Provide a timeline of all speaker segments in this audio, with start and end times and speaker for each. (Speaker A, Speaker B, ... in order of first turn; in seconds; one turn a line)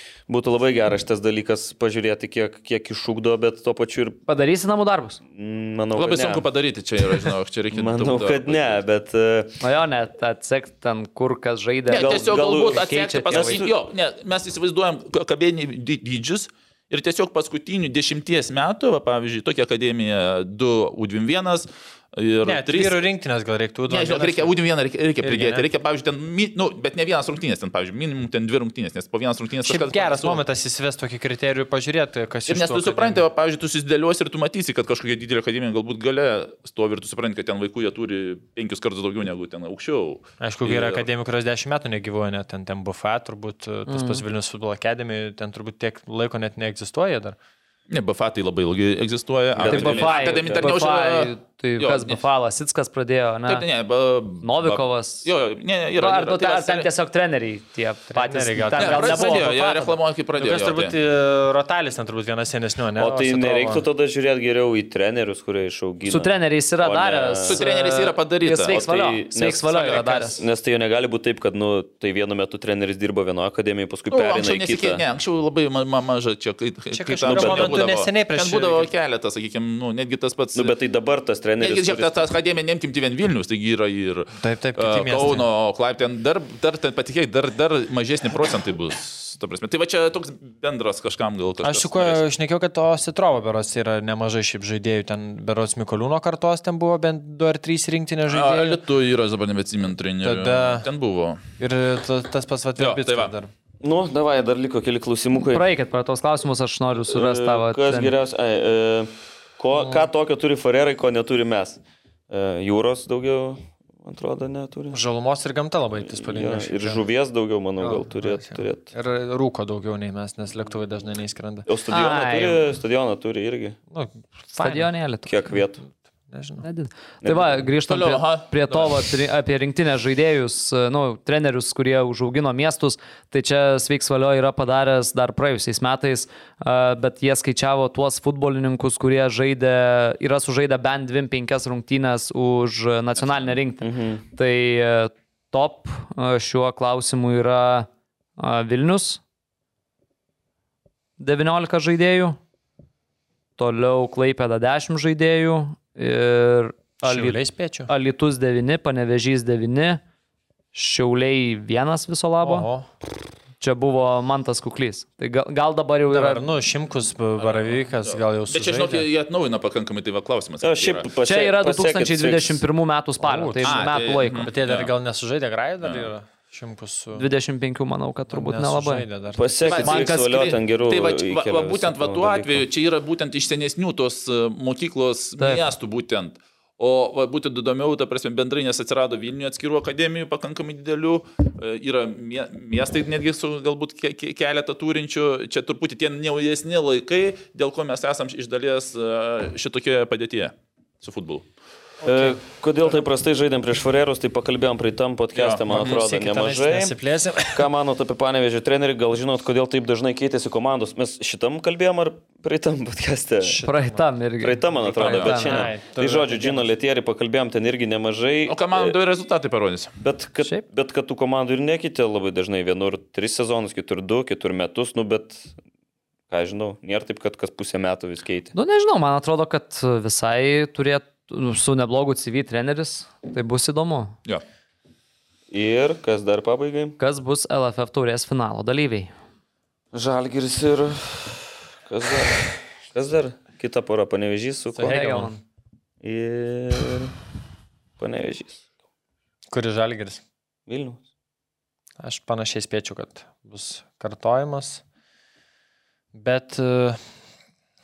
Speaker A: 0.3-4.2
Speaker B: 4.3-5.2
Speaker A: 5.3-6.5
Speaker C: 6.0-8.8
Speaker A: 7.7-9.6
Speaker B: 9.6-13.7
Speaker C: 11.9-23.0
Speaker A: 11.9-13.8
Speaker D: 22.4-24.5
Speaker C: 23.9-30.4
Speaker D: 25.2-25.7
Speaker D: 29.6-33.2
Speaker C: 32.5-41.1
Speaker D: 40.4-47.4
Speaker B: 43.9-44.2
Speaker C: 47.9-52.2
Speaker A: 49.6-50.7
Speaker B: 49.7-53.6
Speaker C: 53.5-56.9
Speaker B: 54.4-55.3
Speaker B: 56.0-60.0
Speaker D: 58.1-59.5
Speaker C: 58.8-61.0
Speaker D: 60.4-63.9
Speaker A: 63.0-67.6
Speaker B: 66.1-70.4
Speaker C: 67.5-68.8
Speaker A: 68.7-75.0
Speaker C: 69.7-70.1
Speaker C: 74.1-80.8
Speaker D: 76.9-78.9
Speaker A: 77.2-77.8
Speaker A: 80.5-82.3
Speaker C: 81.6-92.2
Speaker D: 84.4-85.5
Speaker D: 91.6-98.8
Speaker C: 98.3-101.4
Speaker D: 100.2-100.9
Speaker D: 101.6-103.5
Speaker C: 102.8-103.3
Speaker A: 103.8-105.7
Speaker B: 105.3-108.2
Speaker A: 107.1-115.0
Speaker D: 109.8-110.1
Speaker D: 114.9-117.0
Speaker A: 116.1-118.9
Speaker D: 117.8-121.7
Speaker A: 121.7-123.8
Speaker B: 121.9-122.6
Speaker D: 123.9-124.9
Speaker B: 124.5-125.3
Speaker A: 125.3-125.8
Speaker D: 125.9-126.6
Speaker B: 126.6-149.2
Speaker A: 127.2-127.6
Speaker C: 127.9-128.9
Speaker A: 143.8-144.2
Speaker B: 151.2-152.4
Speaker B: 153.6-160.0
Speaker D: 157.0-157.9
Speaker B: 160.7-162.7
Speaker D: 162.4-162.9
Speaker B: 163.6-166.4
Speaker D: 166.1-169.1
Speaker C: 167.4-171.1
Speaker A: 170.6-172.6
Speaker B: 171.2-174.5
Speaker D: 173.2-177.3
Speaker C: 173.6-174.9
Speaker C: 175.8-176.1
Speaker B: 177.1-179.1
Speaker D: 178.3-179.5
Speaker A: 179.3-182.7
Speaker C: 179.7-201.5
Speaker B: 185.4-185.7
Speaker D: 202.0-202.4
Speaker A: 202.0-207.0
Speaker C: 205.3-206.0
Speaker D: 205.7-207.7
Speaker A: 207.5-213.6
Speaker D: 213.4-214.0
Speaker B: 213.6-215.7
Speaker A: 214.4-219.0
Speaker D: 214.8-216.7
Speaker C: 215.0-215.3
Speaker C: 218.5-219.9
Speaker A: 220.0-225.6
Speaker A: 226.3-228.5
Speaker B: 228.5-234.2
Speaker A: 235.5-237.0
Speaker B: 237.0-239.1
Speaker A: 239.9-245.2
Speaker D: 244.8-245.4
Speaker B: 244.8-245.4
Speaker A: 246.0-247.1
Speaker A: 248.0-248.6
Speaker D: 249.5-250.2
Speaker A: 250.7-251.0
Speaker D: 252.0-254.8
Speaker D: 256.1-257.0